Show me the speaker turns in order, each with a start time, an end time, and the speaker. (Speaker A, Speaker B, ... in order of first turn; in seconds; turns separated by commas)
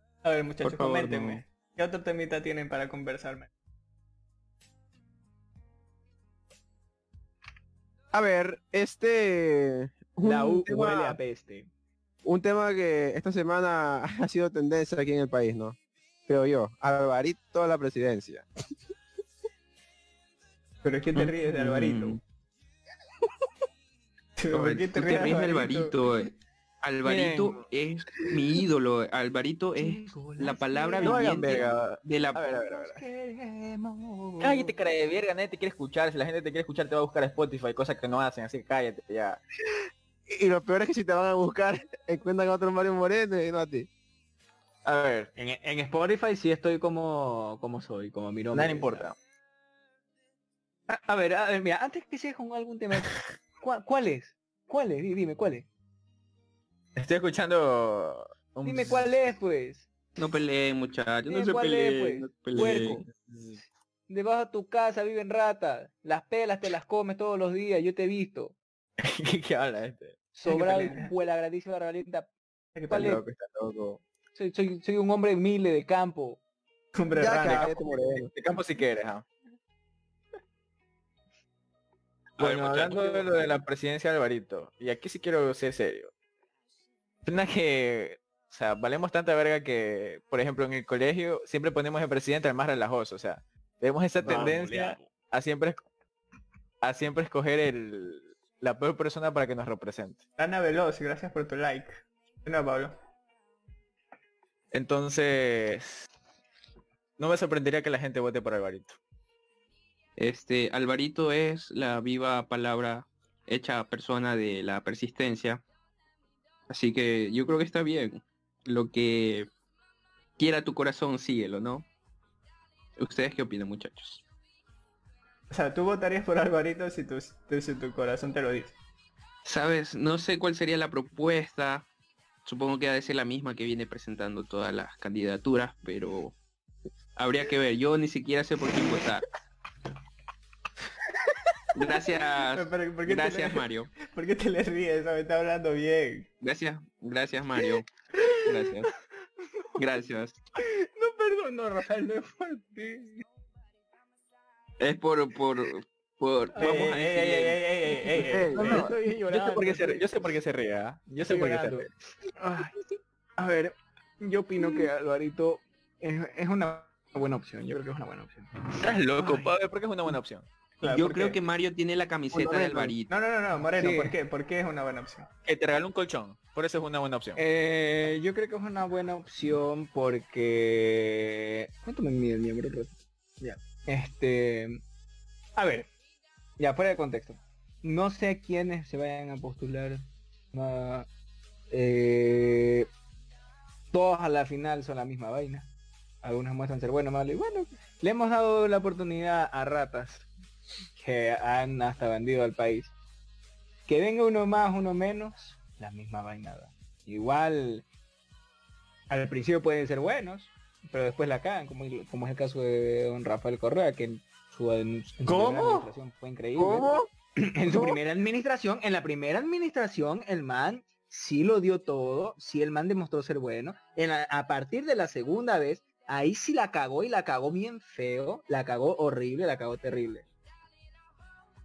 Speaker A: 0.2-3.5, Speaker B: 0.6-1.4, Speaker C: 8.1-11.2, Speaker D: 10.2-11.7, Speaker C: 12.2-15.8, Speaker C: 16.3-18.5, Speaker A: 20.8-22.2, Speaker B: 21.1-22.2, Speaker A: 24.4-25.9, Speaker B: 24.5-32.6, Speaker E: 27.0-27.6, Speaker D: 29.8-31.6, Speaker E: 31.0-33.0, Speaker D: 32.6-34.8, Speaker E: 34.4-39.4, Speaker C: 40.3-43.9, Speaker E: 44.8-45.3, Speaker D: 45.4-49.1, Speaker E: 48.5-49.2, Speaker D: 50.9-55.7, Speaker E: 57.0-59.3, Speaker D: 58.6-59.9, Speaker B: 60.2-63.0, Speaker D: 61.3-63.1, Speaker E: 63.1-63.6, Speaker D: 64.1-68.5, Speaker E: 69.0-70.2, Speaker D: 70.3-72.3, Speaker A: 70.5-71.1, Speaker A: 72.8-73.2, Speaker D: 72.9-73.2, Speaker E: 72.9-74.0, Speaker D: 74.3-76.4, Speaker A: 77.0-77.8, Speaker C: 77.2-78.3, Speaker E: 77.3-79.3, Speaker B: 82.4-83.3, Speaker E: 82.4-86.1, Speaker E: 87.2-95.8, Speaker C: 94.3-94.6, Speaker E: 96.8-100.2, Speaker A: 100.4-103.0, Speaker E: 104.7-106.1, Speaker E: 107.2-109.0, Speaker B: 110.2-115.6, Speaker B: 116.7-119.5, Speaker B: 120.4-121.9, Speaker B: 123.0-124.2, Speaker A: 125.5-128.8, Speaker B: 129.4-131.9, Speaker B: 132.4-136.4, Speaker B: 137.2-139.3, Speaker B: 141.7-143.9, Speaker A: 142.5-146.3, Speaker B: 146.4-148.9, Speaker B: 149.8-150.4, Speaker D: 150.6-153.2, Speaker B: 154.8-158.3, Speaker D: 156.6-156.8, Speaker A: 156.6-158.7, Speaker E: 158.3-161.9, Speaker D: 158.5-160.3, Speaker D: 161.1-162.8, Speaker D: 163.4-169.6, Speaker E: 168.8-170.5, Speaker A: 170.8-171.4, Speaker B: 170.9-173.2, Speaker C: 172.3-172.9, Speaker A: 173.1-175.3, Speaker D: 173.6-174.2, Speaker E: 175.4-177.4, Speaker D: 177.4-184.8, Speaker D: 185.6-185.9, Speaker D: 186.6-191.1, Speaker D: 191.7-192.9, Speaker D: 193.9-195.7, Speaker D: 196.2-200.3, Speaker D: 201.0-202.9, Speaker D: 203.9-207.9, Speaker D: 209.1-230.3, Speaker A: 215.2-215.9, Speaker C: 216.6-217.1, Speaker C: 217.7-218.0